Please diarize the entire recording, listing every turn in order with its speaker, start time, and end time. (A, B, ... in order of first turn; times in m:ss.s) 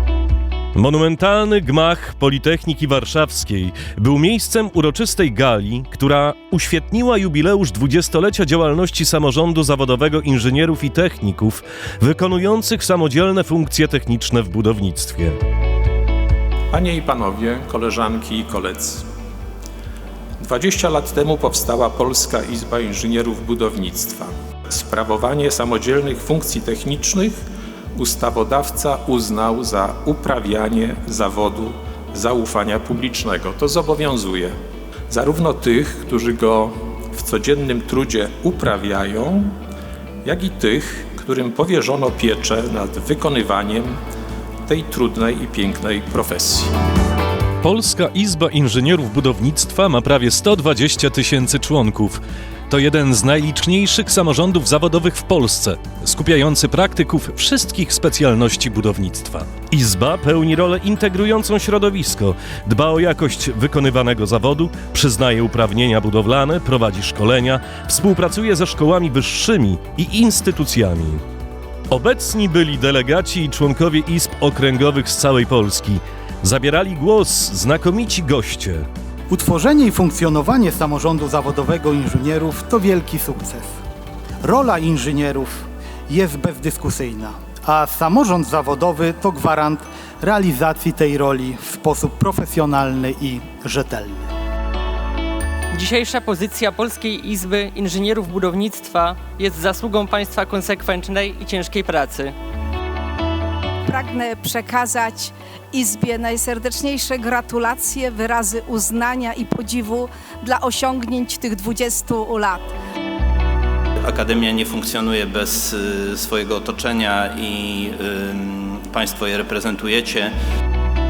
0:00.8-0:15.4 A
0:16.7-0:19.0 B
0:20.4-0:27.3 B
0:28.0-0:34.6 B
0:35.1-0:39.5 B
0:40.2-0:43.9 B
0:44.7-0:46.7 B
0:47.6-1:11.2 A
1:11.9-1:18.8 A
1:19.3-1:23.7 C
1:24.4-1:34.2 C
1:35.7-1:42.3 D
1:43.9-1:52.7 E
1:54.0-2:00.3 F